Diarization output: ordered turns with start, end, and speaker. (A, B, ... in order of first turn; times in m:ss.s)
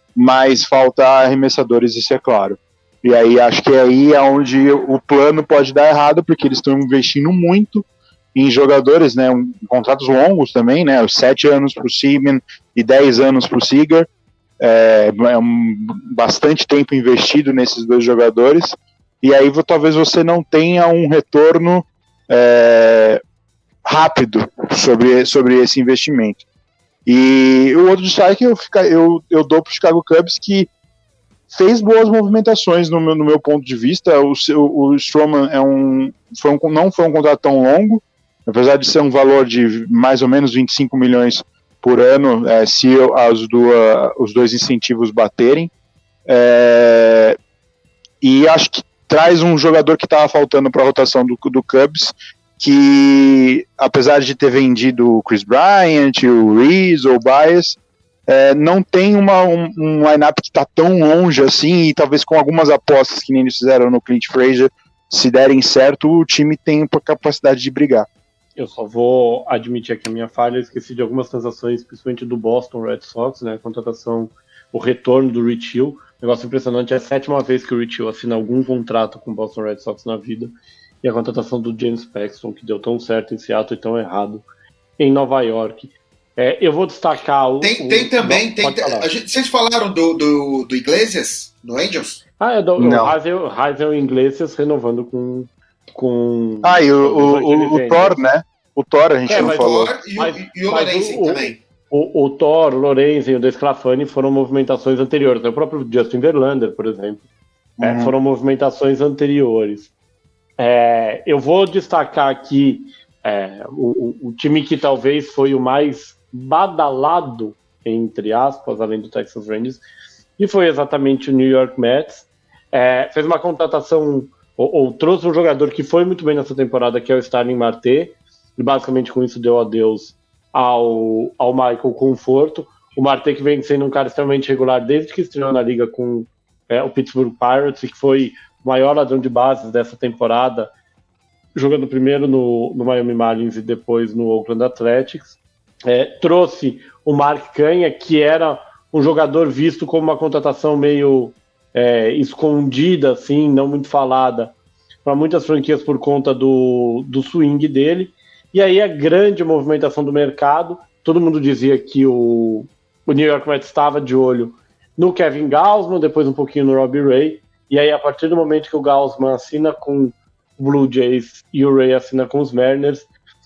0:00.2-0:14.1 A
0:14.6-0:23.2 A
0:23.8-0:26.4 A
0:27.1-0:30.7 A
0:31.5-0:45.7 A
0:46.3-0:47.4 A
0:48.2-1:08.1 A
1:08.6-1:20.5 B
1:21.0-1:24.5 B
1:25.0-1:29.1 B
1:27.6-1:32.2 C
1:32.4-1:38.2 B
1:32.8-1:33.1 A
1:36.6-1:39.9 A
1:39.3-1:47.2 B
1:39.3-1:41.6 C
1:47.8-1:48.1 A
1:47.8-1:49.9 B
1:50.6-1:59.8 B
2:00.4-2:20.7 B
2:21.6-2:34.5 B
2:35.0-2:53.1 B